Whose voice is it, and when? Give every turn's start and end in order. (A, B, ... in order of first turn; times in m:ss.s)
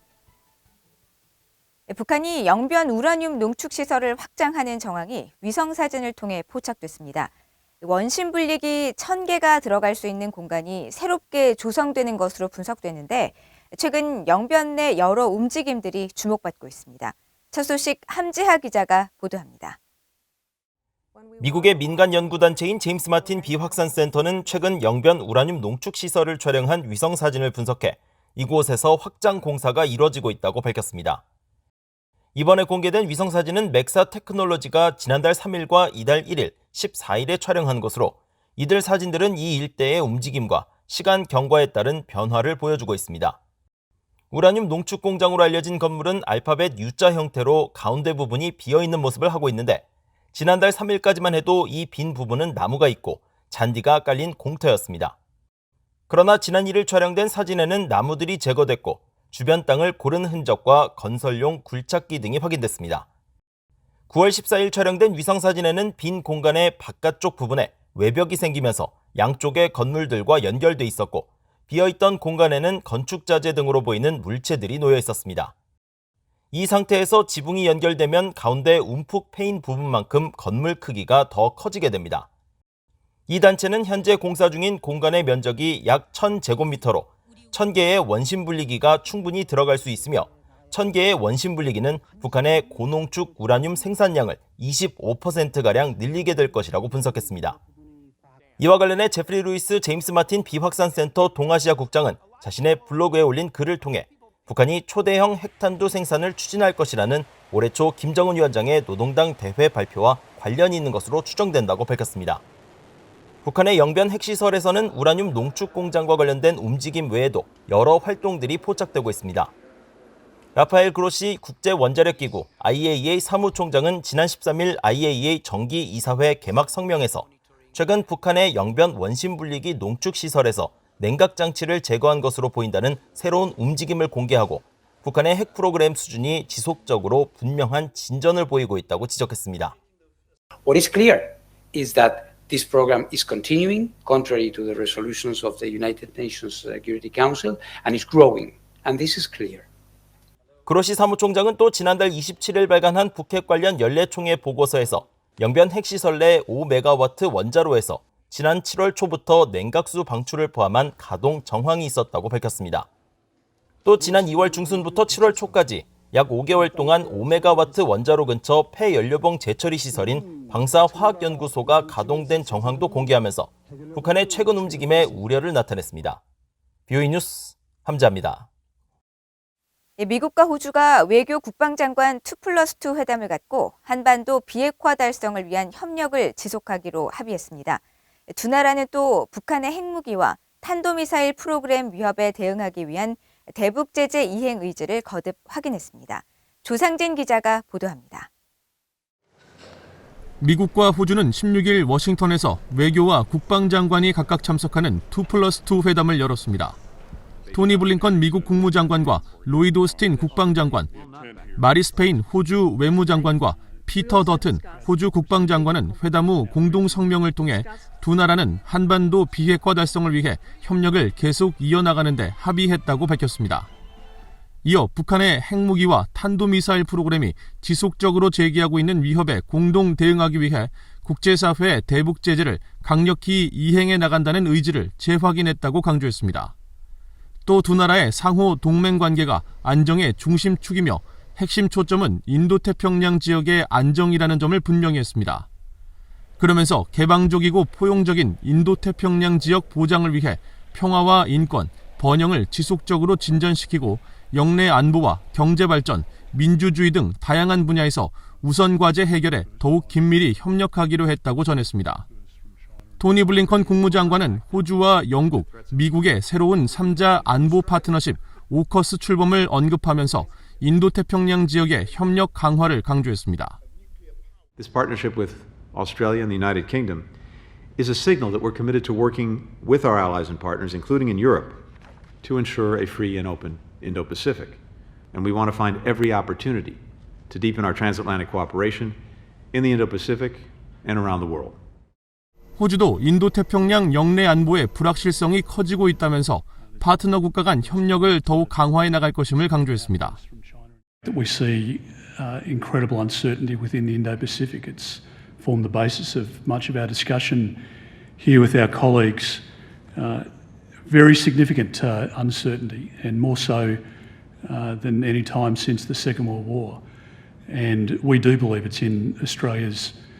0:01.9-0:19.8 A
0:21.4-0:31.2 B
0:32.3-0:43.4 B
0:44.3-0:55.2 B
0:56.1-1:03.1 B
1:04.1-1:15.5 B
1:16.5-1:22.3 B
1:23.3-1:37.6 B
1:38.6-1:52.4 B
1:53.4-1:59.5 B
2:00.5-2:19.7 B
2:20.6-2:29.6 C
2:30.6-2:42.9 B
2:43.8-2:56.2 B
2:56.9-2:58.4 B
3:00.0-3:18.3 A
3:20.4-3:26.8 D
3:27.4-3:29.5 E
3:27.5-3:30.9 D
3:30.2-3:31.5 E
3:31.5-3:43.7 D
3:44.6-3:56.5 D
3:57.4-4:05.4 D
4:06.4-4:22.0 D
4:23.0-4:33.6 D
4:34.6-4:37.1 E
4:37.8-4:41.6 E
4:42.2-4:44.6 E
4:45.1-4:49.0 E
4:49.5-4:51.6 E
4:52.6-5:00.2 D
4:56.6-5:07.6 F
5:08.2-5:10.3 F
5:10.8-5:13.8 F
5:14.4-5:16.8 F
5:17.5-5:20.0 F